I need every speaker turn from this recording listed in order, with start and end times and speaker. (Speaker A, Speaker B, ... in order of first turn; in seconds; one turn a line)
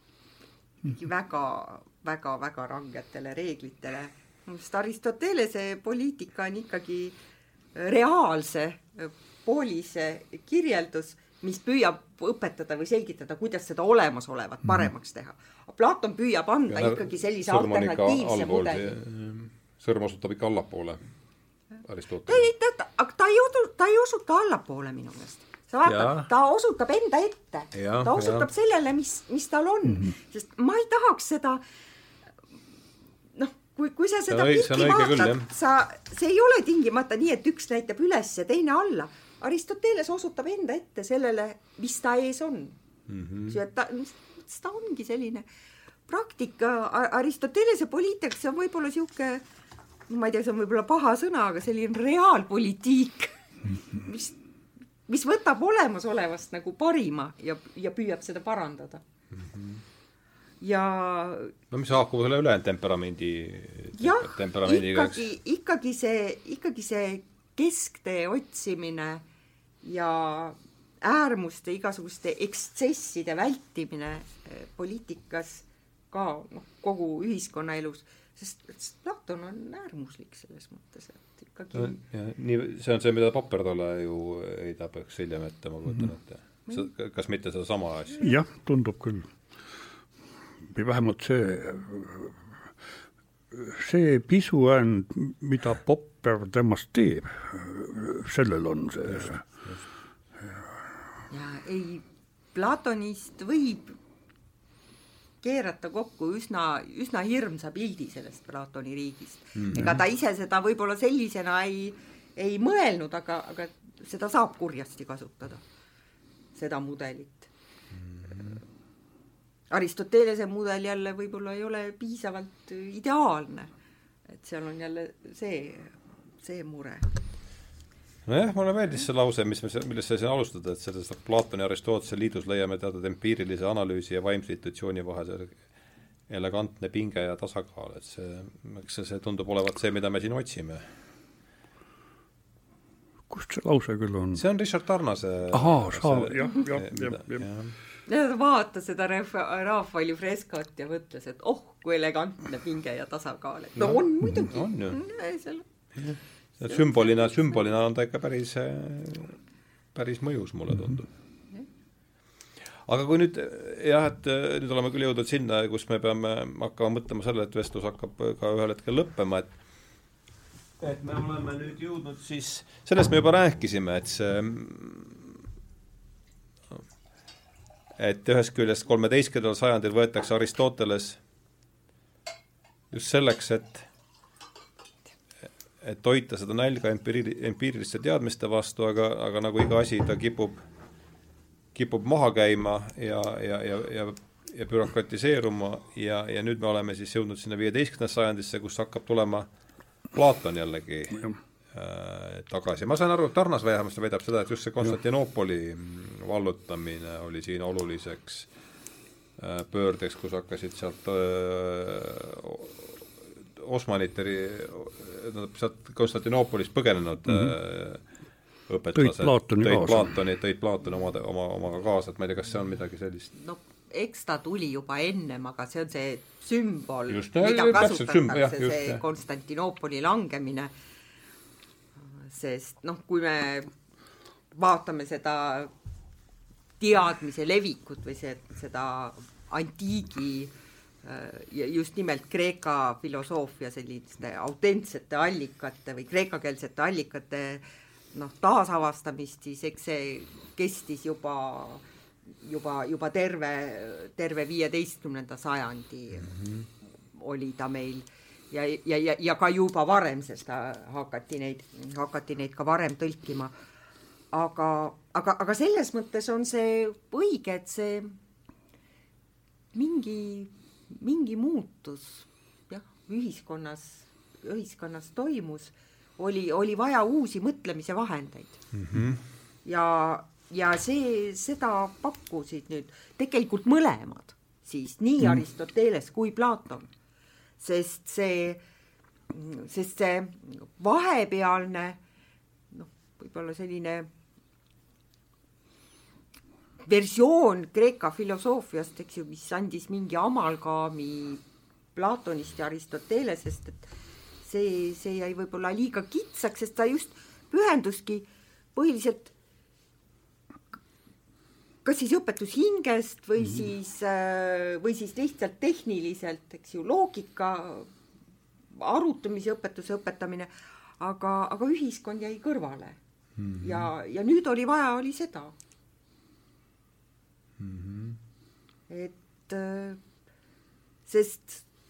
Speaker A: 0.8-7.2
Speaker A: 7.7-18.9
Speaker B: 16.7-21.0
Speaker B: 21.8-22.5
Speaker A: 22.2-31.6
Speaker B: 25.9-26.3
Speaker B: 27.7-28.5
Speaker A: 33.3-42.8
Speaker B: 34.3-35.5
Speaker B: 43.1-43.6
Speaker A: 43.5-45.5
Speaker A: 46.1-49.4
Speaker A: 50.1-54.4
Speaker A: 55.1-59.0
Speaker B: 59.3-59.8
Speaker A: 60.6-61.5
Speaker B: 61.7-65.2
Speaker A: 64.0-69.2
Speaker A: 69.8-82.0
Speaker B: 81.7-88.3
Speaker C: 88.2-89.3
Speaker C: 90.7-92.4
Speaker C: 93.5-99.4
Speaker B: 99.2-99.8
Speaker A: 101.3-104.0
Speaker A: 105.4-115.6
Speaker B: 109.6-110.0
Speaker A: 116.5-117.5
Speaker B: 118.0-118.6
Speaker A: 119.7-123.7
Speaker A: 124.3-127.1
Speaker B: 128.2-135.6
Speaker B: 136.3-140.8
Speaker C: 143.3-144.4
Speaker B: 144.3-147.7
Speaker C: 145.5-147.5
Speaker A: 148.1-155.7
Speaker B: 153.8-155.0
Speaker B: 155.9-159.4
Speaker A: 156.6-157.6
Speaker B: 159.9-161.1
Speaker B: 162.8-169.5
Speaker B: 170.8-175.3
Speaker B: 178.0-181.2
Speaker B: 182.9-183.8
Speaker B: 185.8-190.6
Speaker B: 191.7-199.5
Speaker B: 200.1-208.5
Speaker B: 209.4-218.0
Speaker C: 217.3-217.5
Speaker B: 218.7-223.3
Speaker C: 218.9-220.1
Speaker A: 223.3-230.7
Speaker B: 227.1-229.0
Speaker A: 232.1-233.7
Speaker A: 234.5-235.7
Speaker A: 236.8-240.5
Speaker A: 241.0-251.8
Speaker A: 252.4-256.4
Speaker A: 257.1-263.5
Speaker A: 264.3-268.2
Speaker A: 269.7-278.6
Speaker B: 278.7-279.2
Speaker A: 279.6-286.9
Speaker A: 287.6-288.6
Speaker A: 289.3-292.0
Speaker A: 292.7-294.1
Speaker A: 296.8-301.4
Speaker A: 301.9-303.9
Speaker A: 304.4-309.3
Speaker A: 311.8-317.9
Speaker A: 318.8-323.0
Speaker B: 323.4-323.9
Speaker A: 323.6-325.5
Speaker B: 327.6-328.2
Speaker A: 328.9-330.0
Speaker A: 331.1-331.6